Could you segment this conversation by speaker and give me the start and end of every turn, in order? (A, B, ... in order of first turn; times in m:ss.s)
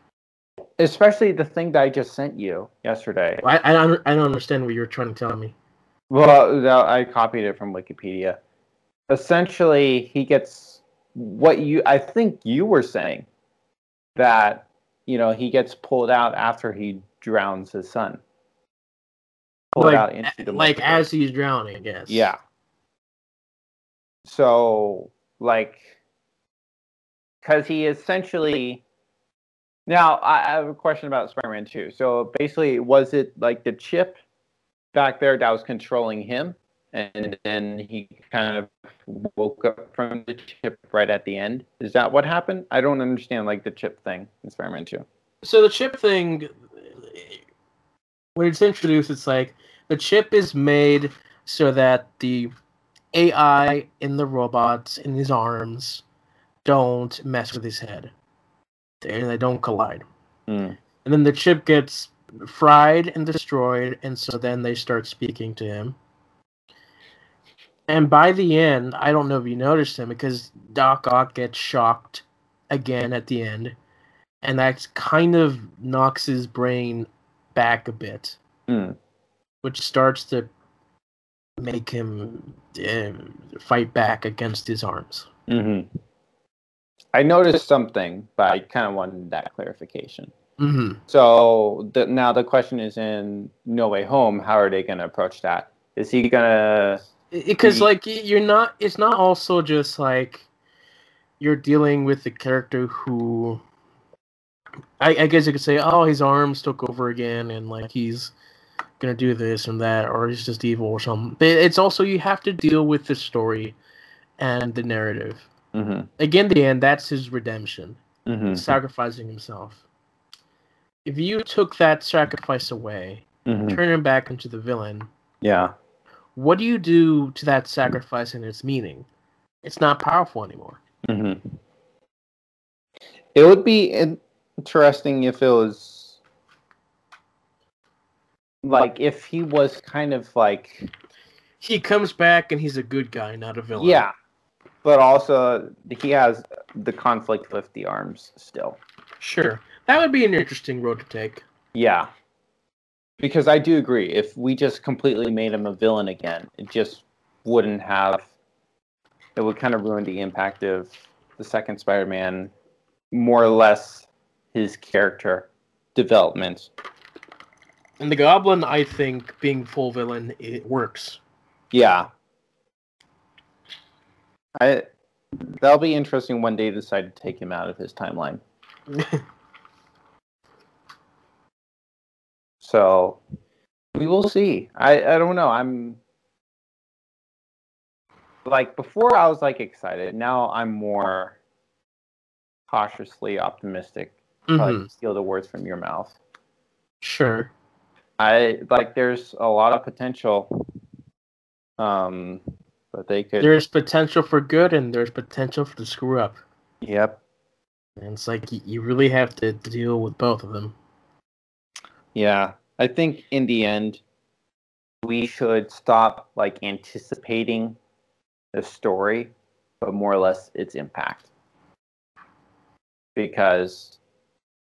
0:00.8-0:03.4 A
0:03.4-0:05.5 B
0:06.1-0:08.4 A
0:09.1-0:13.3 A
0:14.2-0:18.2 A
0:19.7-0:21.0 A
0:19.8-0:22.3 B
0:22.1-0:22.4 A
0:24.2-0:25.9 A
0:27.4-0:28.8 A
0:29.9-0:34.2 A
0:34.9-0:45.0 A
0:45.4-0:47.4 B
0:48.3-0:52.5 B
0:53.1-0:56.0 B
0:56.6-0:58.1 B
0:59.0-1:00.0 B
1:00.5-1:00.8 A
1:01.0-1:06.0 B
1:07.9-1:13.7 B
1:14.4-1:18.4 B
1:18.7-1:19.0 A
1:19.6-1:20.5 B
1:21.6-1:25.3 B
1:25.5-1:25.9 A
1:27.1-1:30.3 A
1:30.6-1:31.0 B
1:31.1-1:37.0 A
1:37.3-1:40.5 B
1:41.4-1:43.6 B
1:45.0-1:48.3 B
1:49.0-1:53.8 B
1:54.4-1:55.5 B
1:55.7-1:56.1 A
1:56.2-1:59.8 B
1:58.2-1:58.7 A
2:01.0-2:05.1 B
2:03.4-2:03.8 A
2:05.4-2:05.7 A
2:06.4-2:09.1 B
2:09.6-2:10.8 B
2:11.1-2:11.6 A
2:13.3-2:16.2 A
2:18.6-2:20.9 A
2:21.6-2:24.0 B
2:23.8-2:24.1 A
2:24.8-2:28.8 A
2:29.2-2:31.4 B
2:31.7-2:32.1 A
2:33.2-2:38.3 A
2:39.4-2:42.5 A
2:43.1-2:46.7 A
2:48.0-2:51.2 B
2:51.7-2:52.1 A
2:54.6-2:54.8 A
2:55.4-2:58.4 A
3:02.6-3:03.2 A
3:03.9-3:06.0 A
3:08.4-3:11.4 A
3:12.7-3:16.2 A
3:14.5-3:14.9 B
3:17.0-3:17.5 B
3:18.2-3:20.5 A
3:21.8-3:23.5 A
3:23.4-3:26.4 B
3:26.8-3:27.2 A
3:28.0-3:30.7 B
3:32.1-3:34.0 A
3:35.0-3:37.8 A
3:38.5-3:41.3 A
3:43.2-3:44.0 A